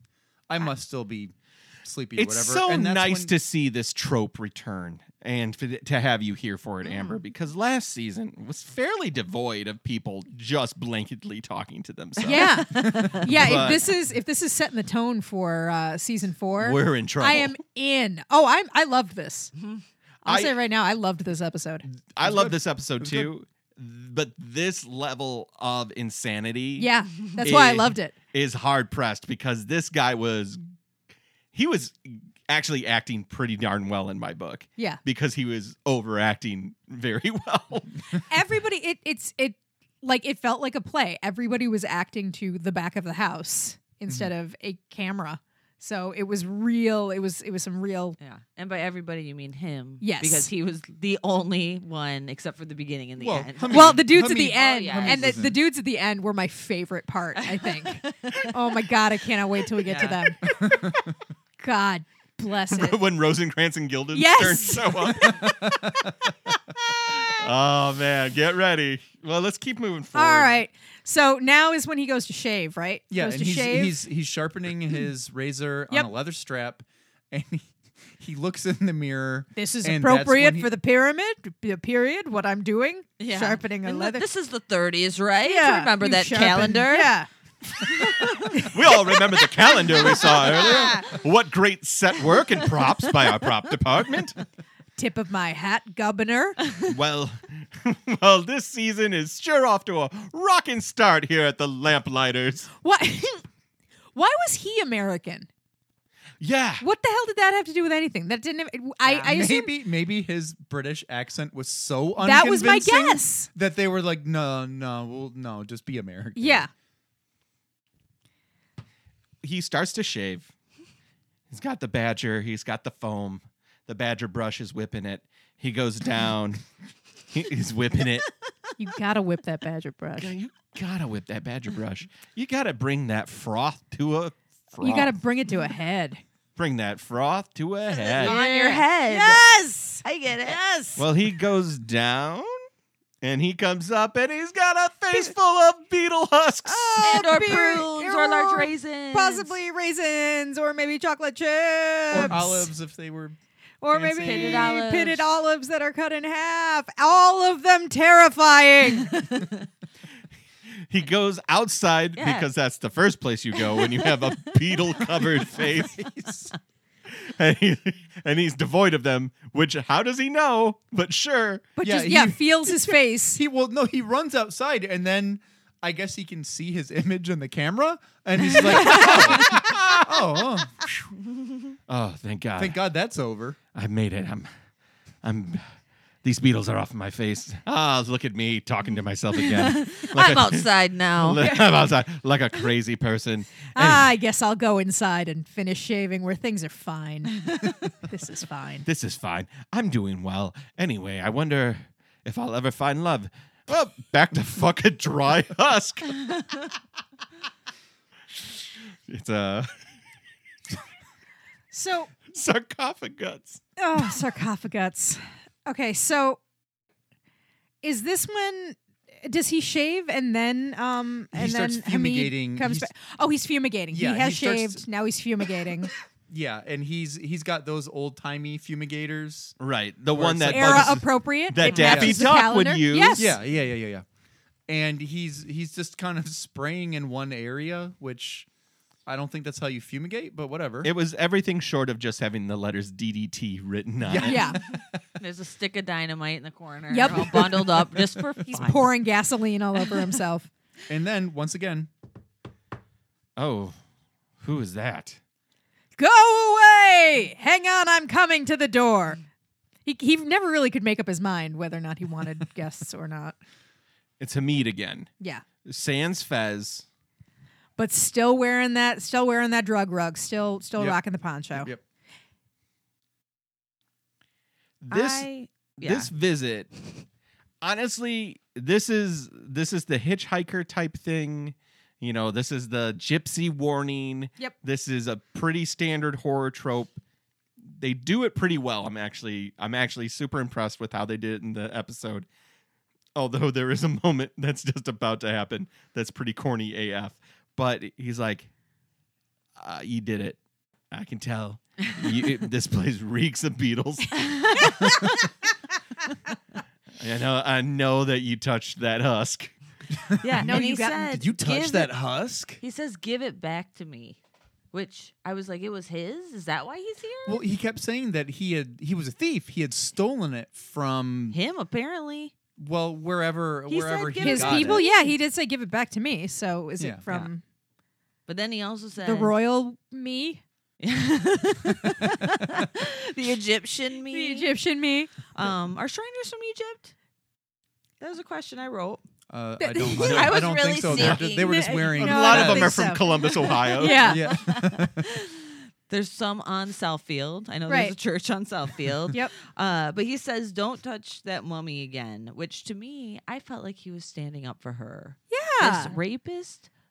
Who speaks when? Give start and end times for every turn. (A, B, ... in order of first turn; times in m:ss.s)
0:00.5-0:03.3 A
0:02.2-0:12.6 B
0:06.8-0:07.2 C
0:12.2-0:19.5 D
0:12.3-0:13.2 C
0:12.8-0:13.7 A
0:13.2-0:13.9 B
0:16.6-0:17.6 B
0:19.6-0:19.8 C
0:20.2-0:21.8 D
0:20.2-0:20.6 B
0:21.9-0:30.6 B
0:22.2-0:23.3 A
0:26.8-0:28.2 D
0:31.5-0:38.0 B
0:38.3-0:48.2 D
0:48.2-0:55.4 C
0:50.0-0:50.5 D
0:53.2-0:55.6 A
0:53.7-1:00.8 D
0:57.4-0:58.6 C
0:59.8-1:00.4 C
1:00.4-1:01.1 A
1:01.6-1:03.0 D
1:02.7-1:05.7 B
1:04.1-1:05.5 D
1:05.2-1:06.1 A
1:07.1-1:10.5 B
1:10.1-1:14.0 D
1:13.1-1:20.7 A
1:19.6-1:24.3 D
1:23.2-1:27.2 C
1:25.4-1:27.3 D
1:27.8-1:31.2 C
1:28.6-1:34.4 B
1:32.3-1:33.7 C
1:35.0-1:36.6 D
1:36.8-1:42.7 B
1:42.8-1:43.4 D
1:44.2-1:45.5 D
1:46.4-1:46.9 B
1:46.8-1:49.7 D
1:49.0-1:49.3 C
1:49.2-1:56.7 A
1:52.2-1:53.5 D
1:56.4-1:56.7 D
1:59.4-2:00.5 B
2:01.5-2:06.6 B
2:07.3-2:08.3 B
2:08.8-2:10.3 D
2:10.2-2:15.2 B
2:14.8-2:16.2 D
2:16.6-2:18.4 B
2:17.9-2:19.4 C
2:18.2-2:21.0 D
2:20.0-2:20.6 C
2:21.0-2:22.6 B
2:23.2-2:27.1 B
2:26.6-2:32.7 D
2:27.0-2:29.5 C
2:32.1-2:33.4 A
2:33.8-2:39.2 D
2:33.9-2:34.7 A
2:34.2-2:35.2 C
2:39.0-2:39.7 C
2:40.9-2:46.0 B
2:42.2-2:42.5 C
2:43.6-2:45.8 C
2:45.8-2:46.5 A
2:47.1-2:51.7 B
2:51.8-2:53.4 D
2:51.8-3:01.0 A
2:58.8-3:00.2 B
3:01.9-3:02.8 B
3:02.6-3:03.6 A
3:03.7-3:04.5 B
3:05.2-3:05.6 B
3:06.2-3:14.1 B
3:09.3-3:11.6 C
3:13.7-3:18.9 D
3:18.9-3:26.7 B
3:29.1-3:29.7 B
3:31.7-3:32.1 D
3:32.3-3:33.6 B
3:33.8-3:36.4 D
3:37.8-3:45.9 D
3:41.3-3:42.9 A
3:43.9-3:44.8 A
3:46.3-3:49.6 A
3:49.6-3:53.3 B
3:50.1-3:51.0 A
3:50.5-3:53.4 D
3:51.8-3:52.2 A
3:53.2-3:54.0 A
3:54.7-3:58.5 A
3:59.1-4:00.9 A
4:00.8-4:04.4 B
4:04.0-4:05.0 A
4:04.2-4:04.6 D
4:05.2-4:08.9 C
4:06.9-4:10.5 D
4:10.9-4:11.9 A
4:13.4-4:13.8 B
4:14.4-4:15.2 B
4:16.0-4:19.2 D
4:19.8-4:23.4 D
4:24.2-4:25.1 B
4:25.6-4:26.9 B
4:27.8-4:31.7 D
4:31.6-4:31.8 A
4:34.8-4:35.3 B
4:34.9-4:36.1 C
4:35.8-4:36.7 B
4:37.6-4:47.0 B
4:47.7-4:52.3 B
4:53.2-4:58.5 B
4:59.6-5:00.4 B
5:00.9-5:04.9 B
5:07.0-5:09.5 B
5:10.1-5:12.6 A
5:10.2-5:12.0 C
5:10.4-5:11.1 D
5:12.6-5:14.2 C
5:14.7-5:17.4 C
5:17.3-5:21.4 A
5:21.3-5:22.3 C
5:22.6-5:24.8 A
5:23.7-5:25.0 C
5:24.2-5:27.4 D
5:28.3-5:29.3 C
5:29.0-5:30.4 D
5:30.8-5:34.5 C
5:32.1-5:32.5 A
5:34.1-5:35.1 D
5:35.3-5:36.9 C
5:38.0-5:39.0 C
5:39.3-5:42.9 A
5:39.6-5:40.3 D
5:39.8-5:41.9 C
5:41.2-5:44.3 D
5:42.0-5:44.1 B
5:43.1-5:56.7 C
5:44.0-5:45.0 A
5:47.7-5:47.9 D
5:55.3-5:56.0 D